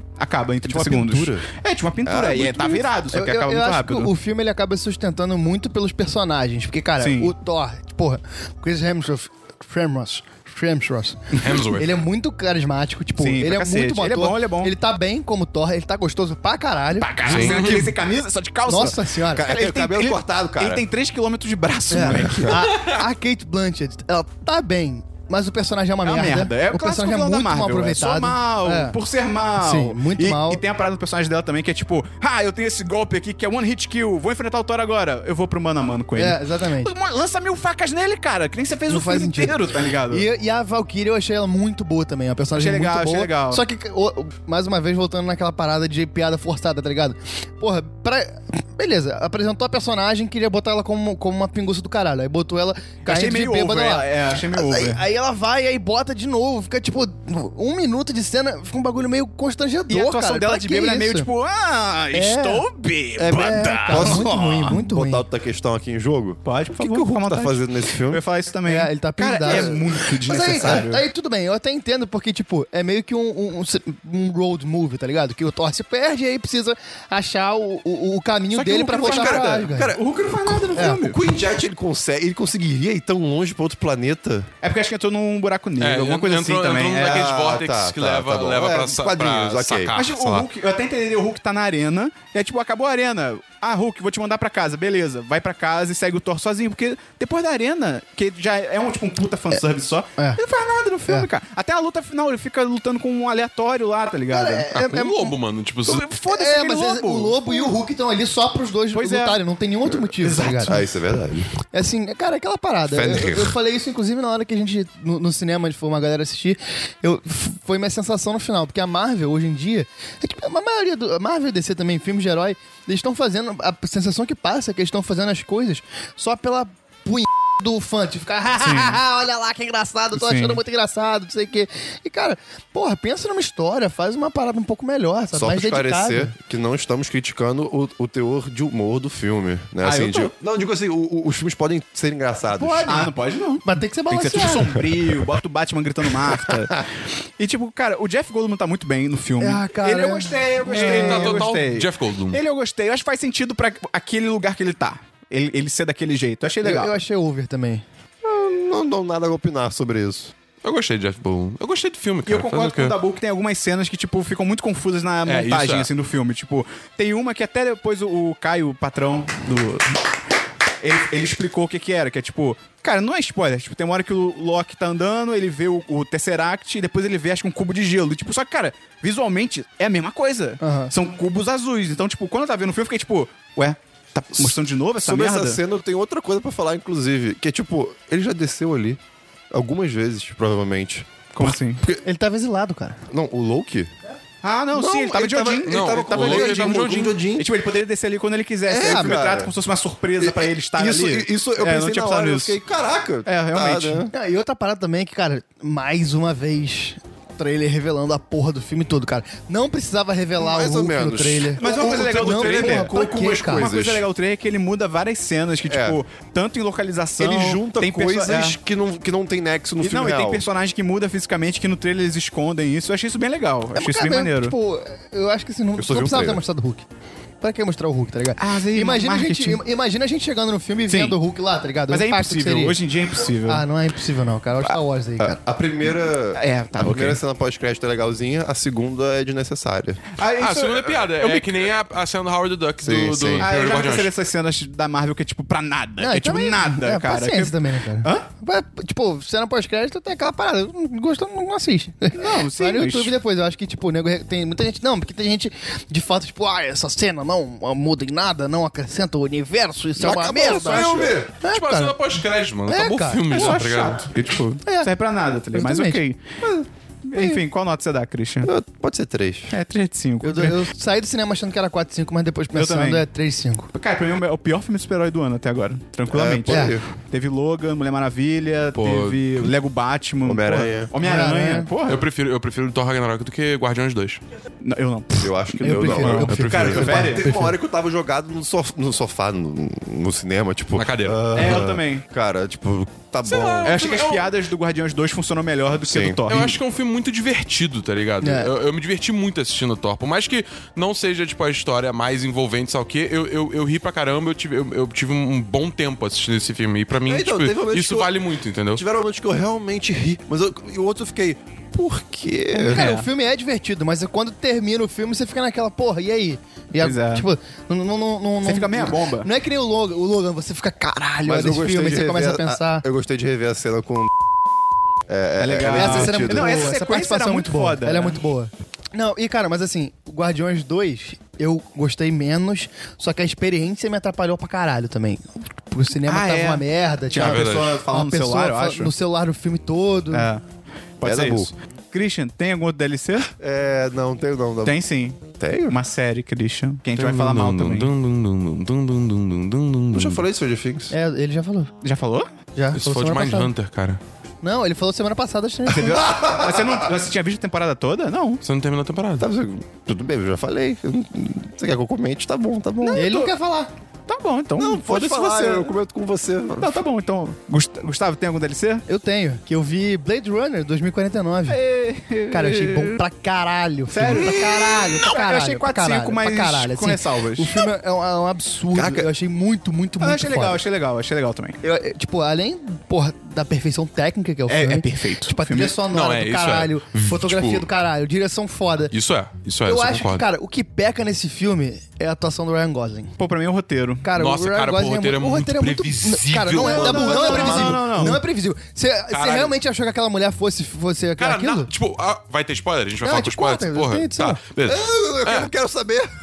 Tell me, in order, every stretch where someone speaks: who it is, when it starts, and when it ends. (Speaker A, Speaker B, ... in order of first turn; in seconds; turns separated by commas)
Speaker A: 0.2-4.1, Speaker B: 0.6-1.5, Speaker B: 2.0-2.9, Speaker C: 3.1-17.6, Speaker A: 7.0-7.3, Speaker D: 11.4-11.9, Speaker A: 13.2-14.7, Speaker A: 17.0-22.6, Speaker D: 17.2-17.9, Speaker B: 17.5-17.8, Speaker C: 18.7-19.5, Speaker B: 19.3-20.9, Speaker C: 21.9-29.0, Speaker A: 26.1-40.2, Speaker C: 29.6-30.6, Speaker C: 36.2-36.9, Speaker C: 38.9-61.3, Speaker A: 42.5-43.6, Speaker A: 53.0-55.0, Speaker A: 59.9-64.7, Speaker C: 62.1-62.6, Speaker B: 63.2-68.2, Speaker C: 63.3-65.2, Speaker A: 66.5-71.0, Speaker C: 68.7-79.9, Speaker B: 69.5-69.8, Speaker B: 70.5-70.8, Speaker A: 78.5-81.2, Speaker B: 78.9-84.5, Speaker A: 84.6-87.4, Speaker D: 85.8-90.5, Speaker B: 86.9-89.9, Speaker A: 89.9-104.7, Speaker C: 104.3-105.4, Speaker D: 104.7-106.0, Speaker A: 105.9-107.8, Speaker C: 106.2-110.8, Speaker A: 108.9-109.4, Speaker A: 110.2-110.8, Speaker B: 110.5-111.5, Speaker C: 111.7-136.3, Speaker B: 112.9-113.6, Speaker A: 128.6-129.0, Speaker A: 130.1-130.6, Speaker B: 135.3-143.1, Speaker A: 139.8-140.3, Speaker A: 142.6-146.9, Speaker C: 143.6-144.7, Speaker B: 146.5-146.8, Speaker A: 147.4-157.0, Speaker C: 149.4-151.4, Speaker D: 150.7-152.4, Speaker C: 156.6-157.8, Speaker B: 158.2-160.3, Speaker D: 160.6-163.0, Speaker A: 162.2-170.0, Speaker D: 165.2-165.9, Speaker A: 170.8-185.6, Speaker C: 180.6-180.9, Speaker B: 184.4-189.0, Speaker B: 189.5-192.0, Speaker A: 191.3-191.8, Speaker C: 192.0-193.0, Speaker B: 193.1-193.9, Speaker A: 194.4-202.6, Speaker B: 194.7-197.5, Speaker D: 195.7-197.2, Speaker B: 198.7-199.5, Speaker C: 198.8-199.2, Speaker B: 200.2-204.1, Speaker A: 203.2-204.1, Speaker C: 204.1-213.7, Speaker B: 210.4-214.1, Speaker A: 211.6-218.6, Speaker B: 215.7-216.0, Speaker B: 217.2-220.5, Speaker A: 219.8-224.6, Speaker C: 223.8-226.8, Speaker B: 225.8-226.4, Speaker C: 227.4-232.8, Speaker A: 228.4-229.6, Speaker A: 230.9-231.2, Speaker A: 231.9-233.6, Speaker C: 233.5-235.4, Speaker B: 235.2-240.0, Speaker A: 236.3-237.2, Speaker A: 240.2-241.7, Speaker D: 240.4-244.1, Speaker B: 242.8-243.5, Speaker A: 243.4-248.2, Speaker C: 246.0-262.0, Speaker A: 252.1-253.1, Speaker B: 260.0-261.3, Speaker D: 260.4-264.1, Speaker C: 262.7-263.6, Speaker A: 263.3-266.2, Speaker C: 264.6-264.9, Speaker C: 265.5-266.0, Speaker B: 266.4-266.7, Speaker A: 267.1-268.5, Speaker B: 268.4-269.5, Speaker A: 269.5-270.6, Speaker C: 270.2-273.7, Speaker A: 272.6-273.1, Speaker A: 273.7-282.0, Speaker B: 276.1-276.9, Speaker C: 276.5-276.8, Speaker D: 278.8-279.5, Speaker B: 280.2-280.9, Speaker C: 281.0-281.7, Speaker D: 281.9-284.2, Speaker A: 284.6-287.3, Speaker B: 285.2-293.8, Speaker C: 285.6-287.5, Speaker D: 286.3-287.1, Speaker D: 290.8-291.6, Speaker A: 291.3-292.0, Speaker D: 293.2-294.3, Speaker A: 293.6-296.6, Speaker B: 295.7-296.2, Speaker D: 296.3-308.8, Speaker C: 298.2-298.5, Speaker B: 307.1-312.9, Speaker C: 312.5-322.9, Speaker A: 312.7-313.1, Speaker A: 316.8-317.2, Speaker A: 318.4-319.3, Speaker B: 321.2-324.1, Speaker B: 325.1-326.7, Speaker A: 325.4-328.2, Speaker C: 325.6-340.3, Speaker A: 336.1-338.9, Speaker D: 337.1-337.8, Speaker A: 340.1-340.4, Speaker A: 341.0-343.3, Speaker B: 341.0-341.5, Speaker B: 343.4-344.8, Speaker A: 344.6-347.9, Speaker B: 345.4-345.8, Speaker D: 346.9-350.2, Speaker B: 349.9-350.9, Speaker C: 350.9-351.7, Speaker A: 351.8-352.3, Speaker C: 352.6-353.5, Speaker D: 352.7-354.0, Speaker C: 354.4-356.1, Speaker B: 355.7-356.9, Speaker A: 355.8-358.4, Speaker D: 358.4-359.3, Speaker B: 359.2-363.1, Speaker A: 362.8-363.3, Speaker C: 362.9-363.7, Speaker A: 364.1-365.7, Speaker B: 364.6-366.8, Speaker A: 366.6-368.9, Speaker C: 368.9-371.6, Speaker A: 371.5-373.0, Speaker C: 372.3-380.6, Speaker A: 373.9-377.6, Speaker B: 378.7-379.1, Speaker A: 380.0-381.6, Speaker C: 381.6-388.9, Speaker A: 384.5-385.8, Speaker D: 385.9-387.7, Speaker D: 388.9-390.2, Speaker C: 389.6-393.1, Speaker A: 393.2-394.1, Speaker C: 394.0-401.7, Speaker D: 394.1-398.2, Speaker A: 396.5-398.2, Speaker D: 399.1-399.6, Speaker D: 401.2-405.5, Speaker C: 403.0-404.4, Speaker B: 404.6-406.1